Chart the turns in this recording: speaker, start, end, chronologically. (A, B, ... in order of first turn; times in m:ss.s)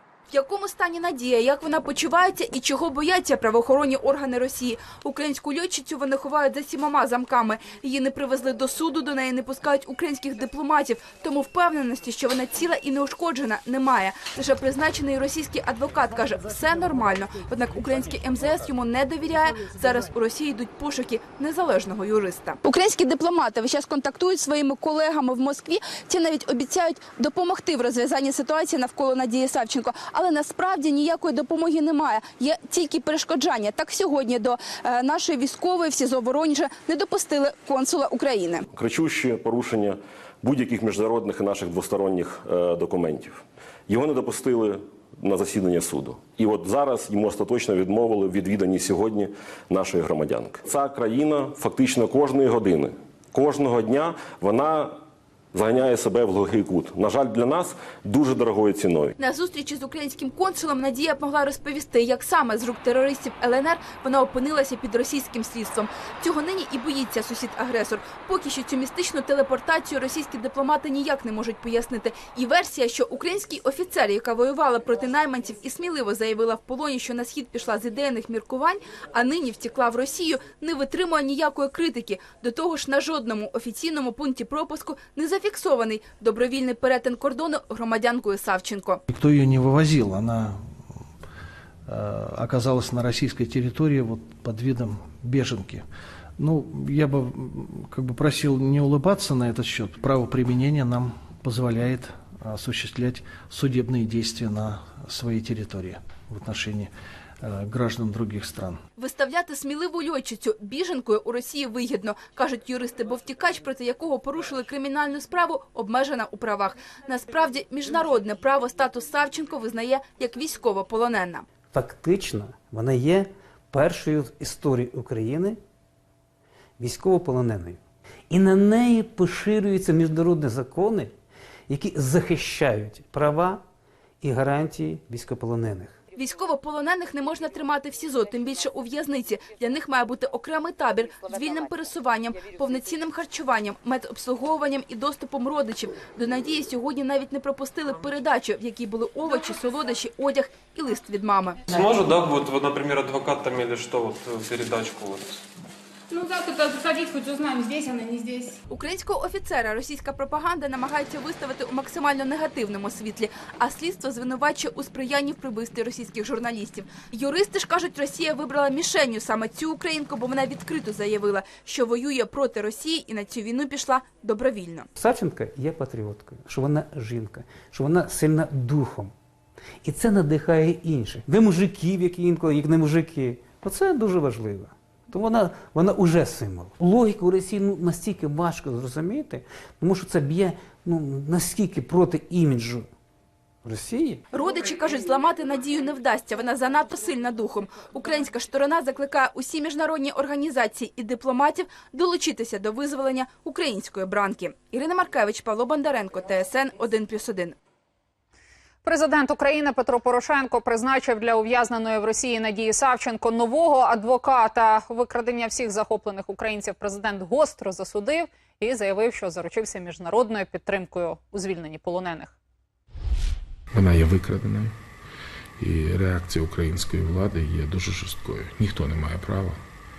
0:00.3-0:38.7 A
0:38.7-0:55.0 B
0:55.5-0:59.1 B
0:59.2-1:29.0 A
1:29.1-1:31.0 C
1:31.9-1:35.8 C
1:36.4-1:48.8 C
1:49.0-2:01.4 A
2:01.7-2:05.6 D
2:06.8-2:07.8 D
2:08.3-2:11.1 D
2:11.7-2:13.6 D
2:14.2-2:16.0 D
2:16.1-2:31.6 A
2:31.7-2:35.4 E
2:36.1-2:38.5 F
2:38.7-2:54.9 A
2:55.0-2:59.1 D
2:59.8-3:12.9 D
3:13.6-3:14.2 D
3:14.3-3:27.6 A
3:28.8-3:42.3 G
3:43.7-3:44.7 H
3:45.6-3:49.6 H